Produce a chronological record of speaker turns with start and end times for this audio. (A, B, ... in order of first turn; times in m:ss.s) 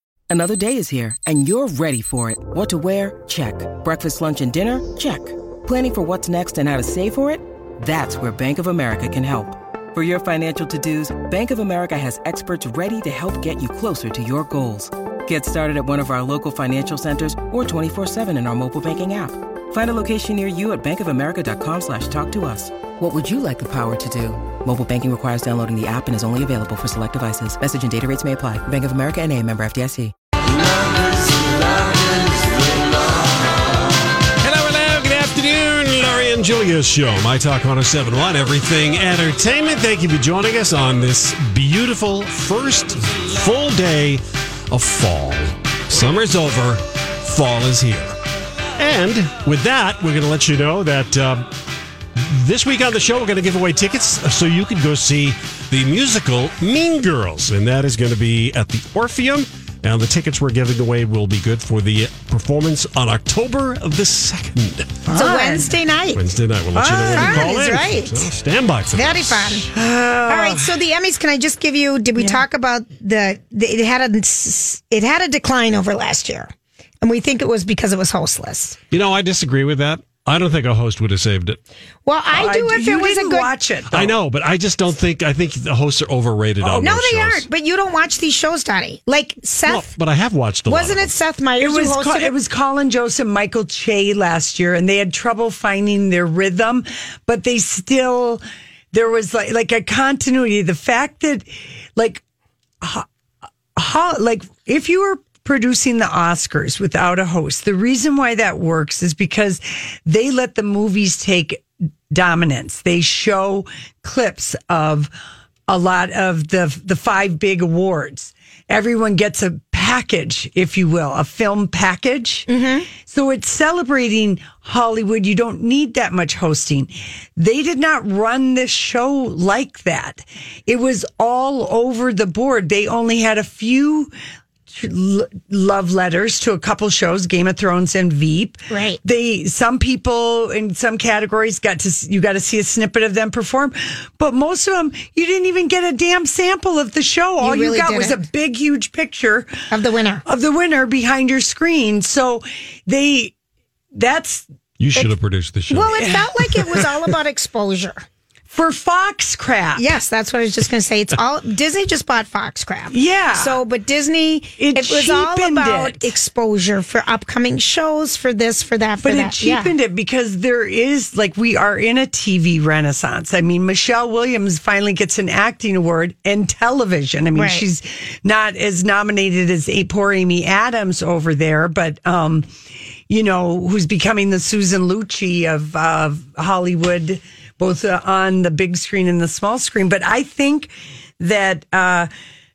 0:00.3-0:30.1 A
0:34.4-0:48.2 B
0:48.8-0:51.5 B
0:52.2-1:05.0 B
1:05.0-1:05.8 C
1:05.2-1:06.2 D
1:06.1-1:09.6 B
1:06.7-1:07.6 C
1:07.1-1:08.3 D
1:08.9-1:09.7 D
1:09.7-1:10.8 C
1:10.3-1:16.5 D
1:12.2-1:12.4 C
1:17.0-1:18.8 D
1:18.9-1:21.6 B
1:22.1-1:23.5 D
1:22.3-1:24.2 C
1:23.9-1:27.5 B
1:26.6-1:26.9 C
1:26.8-1:29.9 D
1:29.7-1:31.1 B
1:30.7-1:32.3 D
1:31.6-1:38.4 C
1:38.9-1:42.2 C
1:42.8-1:43.1 C
1:43.8-1:55.1 C
1:55.7-2:02.5 C
2:02.5-2:02.9 D
2:03.0-2:14.1 C
2:14.7-2:29.6 C
2:18.7-2:19.0 D
2:27.4-2:28.2 D
2:29.7-2:30.2 D
2:30.3-2:33.4 C
2:33.9-2:34.5 C
2:34.8-2:36.1 B
2:35.7-2:38.0 D
2:36.0-2:37.1 C
2:38.5-2:39.8 C
2:39.8-2:49.7 D
2:42.9-2:43.6 C
2:44.6-2:46.2 C
2:49.0-3:02.5 C
2:57.4-2:57.6 D
3:03.1-3:12.1 C